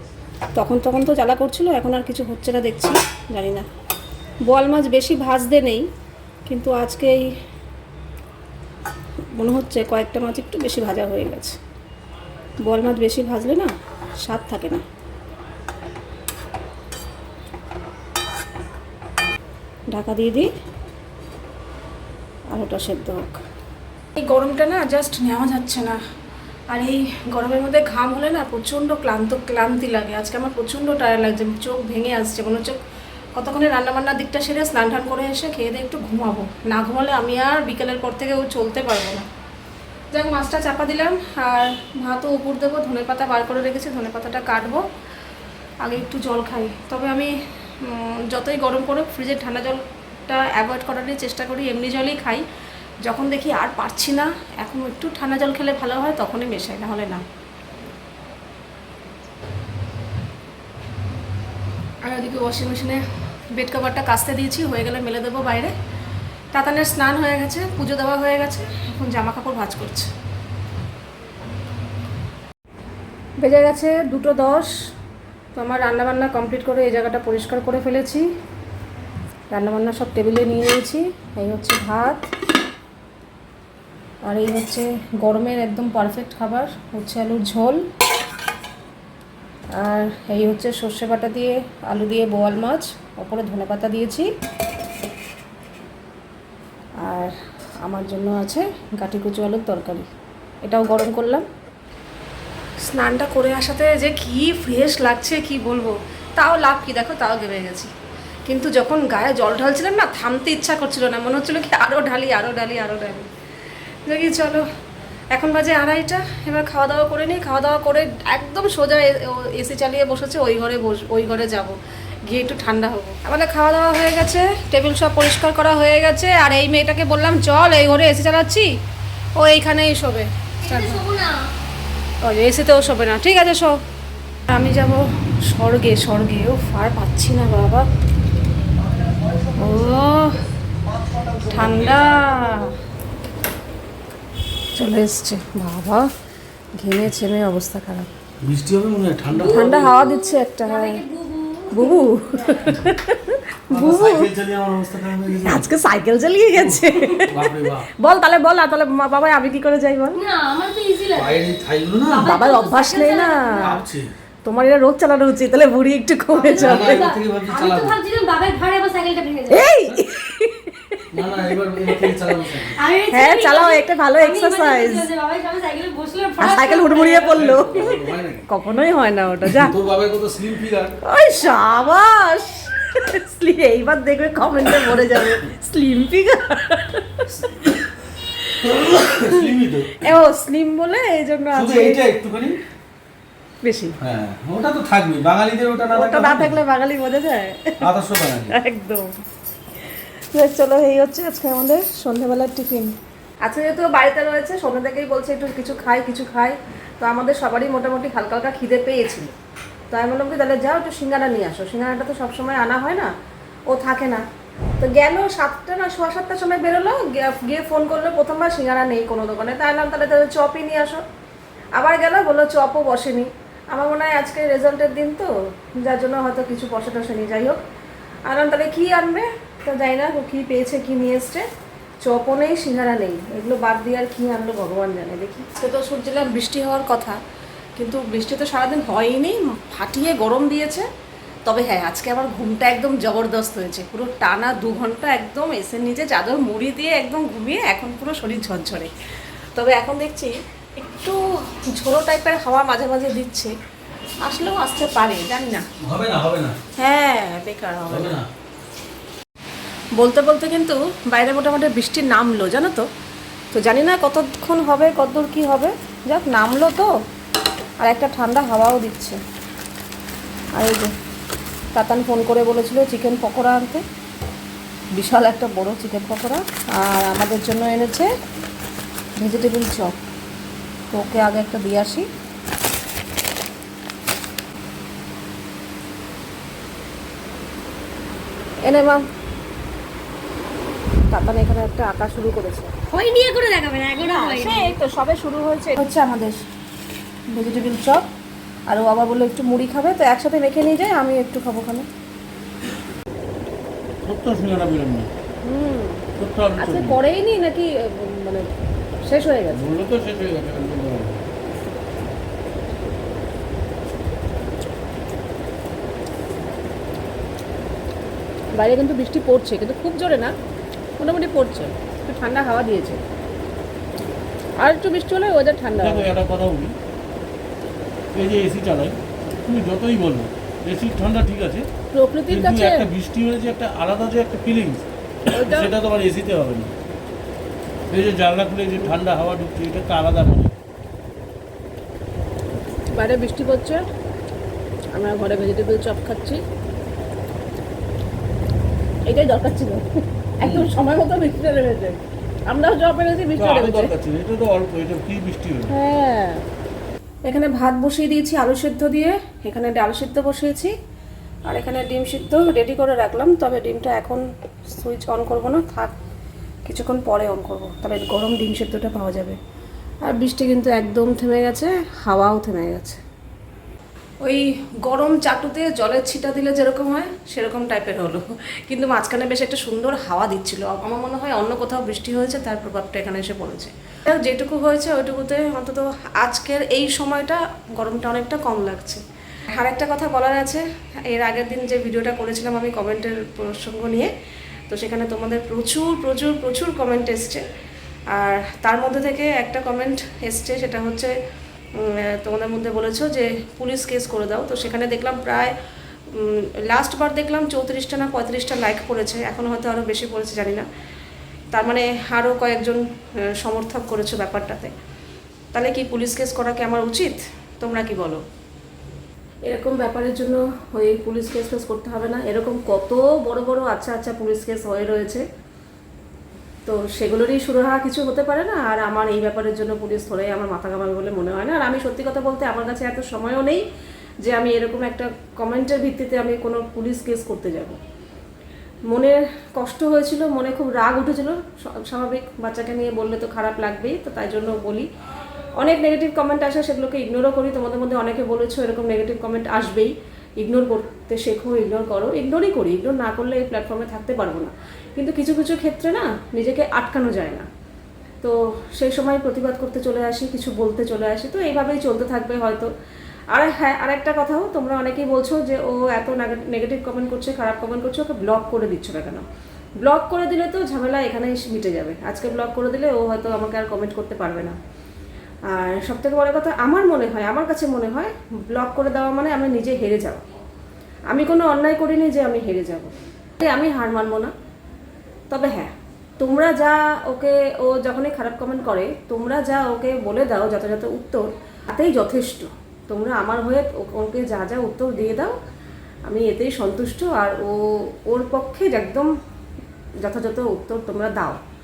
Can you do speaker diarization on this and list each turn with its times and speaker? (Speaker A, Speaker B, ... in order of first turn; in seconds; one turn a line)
Speaker A: 0.5-3.6
Speaker A: 4.5-5.9
Speaker A: 6.5-7.3
Speaker A: 9.3-11.6
Speaker A: 12.6-14.8
Speaker A: 19.9-20.5
Speaker A: 22.5-23.4
Speaker A: 24.1-26.0
Speaker A: 26.7-32.8
Speaker A: 33.3-39.2
Speaker A: 40.1-44.8
Speaker A: 45.8-52.4
Speaker A: 53.0-57.2
Speaker A: 62.0-65.7
Speaker A: 66.5-70.1
Speaker A: 73.4-74.7
Speaker A: 75.5-78.3
Speaker A: 79.5-82.3
Speaker A: 84.2-87.8
Speaker A: 89.8-94.3
Speaker A: 97.0-100.1
Speaker A: 100.6-101.5
Speaker A: 102.8-107.9
Speaker A: 108.5-113.3
Speaker A: 114.0-114.7
Speaker A: 115.3-128.7
Speaker A: 129.4-131.1
Speaker B: 130.6-131.3
Speaker A: 132.2-133.8
Speaker A: 134.5-137.9
Speaker A: 139.6-140.4
Speaker A: 141.4-142.8
Speaker A: 144.7-146.1
Speaker A: 146.8-148.1
Speaker C: 148.4-150.0
Speaker B: 149.3-152.6
Speaker A: 149.5-151.0
Speaker A: 151.7-154.3
Speaker C: 153.7-155.7
Speaker A: 155.4-160.2
Speaker C: 156.5-157.9
Speaker B: 160.1-161.4
Speaker C: 161.1-162.3
Speaker B: 162.1-163.8
Speaker A: 162.2-163.8
Speaker C: 163.5-164.1
Speaker A: 164.4-167.1
Speaker B: 166.3-169.6
Speaker C: 166.5-168.0
Speaker A: 169.5-172.5
Speaker C: 171.1-172.8
Speaker B: 172.8-177.6
Speaker A: 173.1-175.1
Speaker A: 176.4-179.7
Speaker C: 177.2-178.4
Speaker C: 179.4-181.0
Speaker A: 181.0-187.7
Speaker A: 188.4-188.7
Speaker C: 188.6-190.1
Speaker A: 189.3-192.1
Speaker C: 191.5-192.6
Speaker A: 193.6-193.9
Speaker C: 194.0-196.6
Speaker A: 195.9-197.9
Speaker C: 197.8-198.6
Speaker A: 198.5-199.1
Speaker A: 199.8-209.3
Speaker A: 209.9-213.1
Speaker A: 213.7-214.2
Speaker A: 214.8-221.0
Speaker A: 221.7-227.6
Speaker A: 228.2-231.5
Speaker A: 232.0-237.2
Speaker A: 237.8-240.9
Speaker A: 241.4-248.9
Speaker A: 249.5-253.5
Speaker A: 254.2-255.7
Speaker C: 255.8-256.6
Speaker A: 256.8-258.2
Speaker C: 257.9-258.3
Speaker A: 259.9-262.9
Speaker A: 263.5-266.9
Speaker A: 267.8-269.2
Speaker A: 270.5-270.9
Speaker A: 271.7-273.8
Speaker A: 274.9-278.1
Speaker A: 279.2-279.9
Speaker A: 280.9-282.1
Speaker A: 288.6-289.0
Speaker A: 291.1-292.7
Speaker B: 292.9-294.8
Speaker A: 294.0-296.4
Speaker A: 297.3-298.0
Speaker A: 298.7-301.9
Speaker D: 304.1-305.1
Speaker A: 305.4-306.0
Speaker D: 306.2-307.0
Speaker A: 306.6-308.5
Speaker A: 309.1-309.6
Speaker D: 309.5-311.2
Speaker A: 318.5-320.3
Speaker A: 321.0-323.0
Speaker A: 324.6-326.1
Speaker D: 325.8-326.7
Speaker D: 328.1-331.6
Speaker A: 331.9-332.9
Speaker D: 332.3-336.7
Speaker A: 335.3-335.7
Speaker D: 337.9-340.5
Speaker A: 342.9-343.8
Speaker A: 344.9-346.4
Speaker A: 349.1-353.9
Speaker D: 353.4-355.7
Speaker A: 355.7-356.4
Speaker A: 357.2-360.7
Speaker A: 361.4-365.9
Speaker A: 366.6-369.4
Speaker A: 370.0-373.0
Speaker A: 374.2-394.1
Speaker A: 394.7-397.4
Speaker A: 398.1-401.1
Speaker A: 401.8-405.5
Speaker A: 406.1-410.6
Speaker A: 411.5-414.7
Speaker A: 415.5-418.2
Speaker A: 419.4-425.2
Speaker A: 426.6-433.6
Speaker A: 434.2-437.8
Speaker A: 438.9-444.9
Speaker A: 445.6-457.4
Speaker A: 458.2-462.7
Speaker A: 463.3-469.2
Speaker A: 469.8-474.6
Speaker A: 475.5-480.2
Speaker A: 481.1-484.3
Speaker A: 485.3-495.4
Speaker A: 496.0-499.1
Speaker A: 500.0-501.4